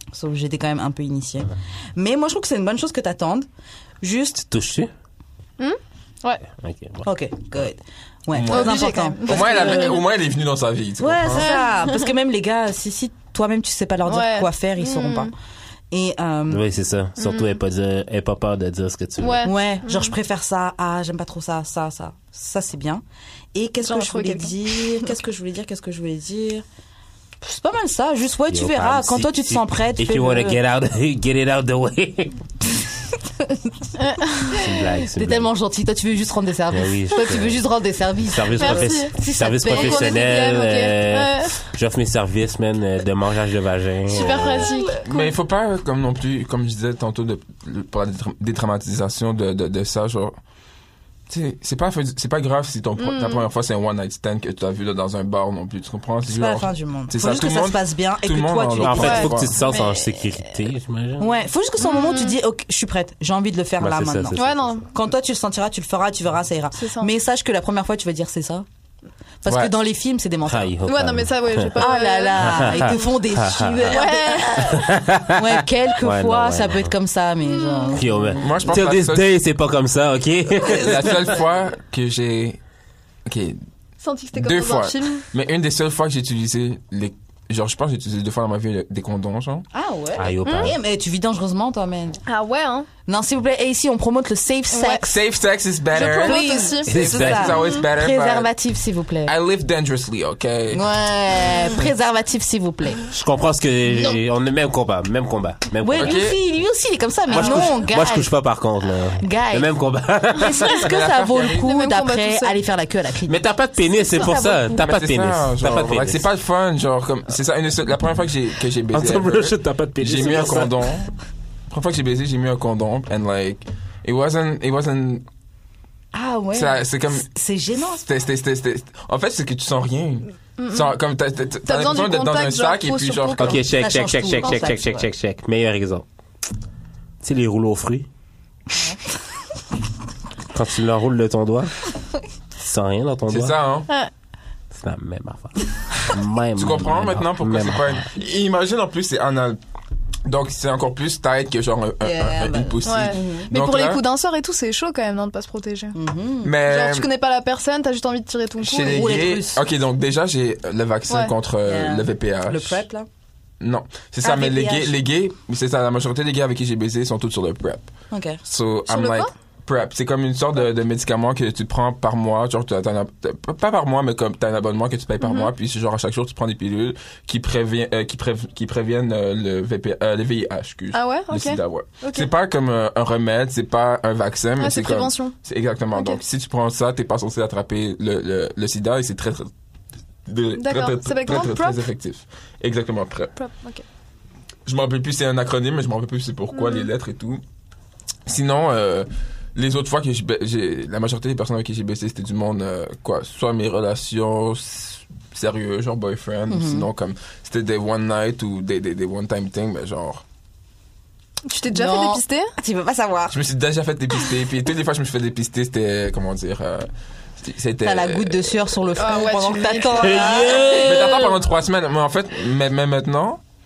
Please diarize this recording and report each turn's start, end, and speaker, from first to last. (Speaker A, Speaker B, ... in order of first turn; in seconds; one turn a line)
Speaker A: 0.1-3.5
Speaker A: 4.0-4.5
Speaker B: 4.5-4.9
Speaker C: 5.6-6.4
Speaker B: 6.6-7.0
Speaker A: 7.0-10.0
Speaker D: 8.3-11.5
Speaker C: 8.5-10.0
Speaker A: 11.0-15.3
Speaker C: 11.3-12.1
Speaker C: 14.1-15.3
Speaker A: 15.9-16.6
Speaker B: 16.5-19.5
Speaker C: 17.2-17.6
Speaker C: 19.2-20.1
Speaker A: 19.4-23.0
Speaker A: 23.5-26.6
Speaker C: 23.8-24.9
Speaker A: 27.4-30.6
Speaker B: 28.5-32.4
Speaker C: 34.0-34.6
Speaker B: 34.4-35.5
Speaker A: 34.7-40.2
Speaker B: 36.7-37.6
Speaker B: 38.2-44.8
Speaker C: 38.6-41.5
Speaker C: 44.1-45.3
Speaker D: 45.0-50.3
Speaker D: 51.3-59.6
Speaker C: 53.0-53.5
Speaker A: 56.3-59.3
Speaker B: 58.8-61.3
Speaker C: 59.0-60.4
Speaker A: 61.2-64.4
Speaker C: 61.8-62.4
Speaker B: 63.8-64.8
Speaker C: 64.3-64.9
Speaker A: 64.9-68.7
Speaker C: 66.7-67.1
Speaker A: 69.4-70.7
Speaker D: 69.5-69.7
Speaker B: 70.5-71.8
Speaker C: 70.8-73.0
Speaker A: 71.8-78.4
Speaker B: 72.4-74.0
Speaker C: 73.8-74.9
Speaker B: 74.6-76.9
Speaker C: 77.5-78.0
Speaker B: 77.9-81.3
Speaker D: 78.3-79.3
Speaker D: 80.6-82.6
Speaker D: 83.2-83.6
Speaker C: 84.0-85.2
Speaker D: 84.3-89.7
Speaker A: 89.7-92.2
Speaker B: 90.2-90.8
Speaker C: 90.4-90.7
Speaker C: 92.2-92.9
Speaker A: 93.0-95.2
Speaker C: 94.7-95.0
Speaker D: 95.0-98.5
Speaker C: 95.9-97.0
Speaker A: 95.9-99.3
Speaker B: 96.9-97.6
Speaker D: 99.2-100.8
Speaker A: 100.7-103.1
Speaker B: 103.1-106.2
Speaker A: 105.8-108.3
Speaker D: 106.0-106.4
Speaker B: 107.3-110.8
Speaker A: 109.2-109.7
Speaker C: 110.4-110.8
Speaker D: 110.7-111.7
Speaker A: 110.7-114.8
Speaker C: 111.5-112.6
Speaker B: 113.3-116.2
Speaker D: 114.7-121.1
Speaker B: 118.9-120.9
Speaker D: 121.7-125.2
Speaker A: 126.1-128.1
Speaker D: 126.5-127.3
Speaker D: 128.0-133.6
Speaker C: 130.6-130.9
Speaker C: 131.6-133.6
Speaker B: 133.4-136.1
Speaker A: 133.7-135.1
Speaker B: 137.2-138.1
Speaker B: 140.5-141.7
Speaker B: 142.6-143.5
Speaker D: 143.3-143.9
Speaker B: 144.7-148.0
Speaker D: 146.6-149.6
Speaker D: 150.2-154.0
Speaker A: 152.0-153.5
Speaker C: 152.8-156.0
Speaker A: 155.9-156.5
Speaker D: 156.4-157.1
Speaker C: 156.6-159.2
Speaker D: 158.6-162.8
Speaker A: 158.8-159.6
Speaker C: 161.1-161.3
Speaker A: 161.6-163.1
Speaker D: 163.6-167.9
Speaker A: 164.2-164.9
Speaker A: 168.1-168.4
Speaker D: 168.4-189.5
Speaker C: 168.9-169.3
Speaker C: 175.2-175.5
Speaker C: 180.9-182.3
Speaker C: 184.6-185.3
Speaker C: 185.9-186.2
Speaker D: 190.2-193.3
Speaker C: 190.6-191.8
Speaker C: 193.4-193.8
Speaker D: 194.7-197.4
Speaker C: 196.5-196.9
Speaker D: 198.2-210.2
Speaker A: 206.5-206.9
Speaker C: 211.4-212.5
Speaker A: 211.7-213.4
Speaker D: 213.3-218.8
Speaker A: 217.8-221.2
Speaker C: 218.9-221.3
Speaker B: 219.9-221.2
Speaker D: 220.7-223.4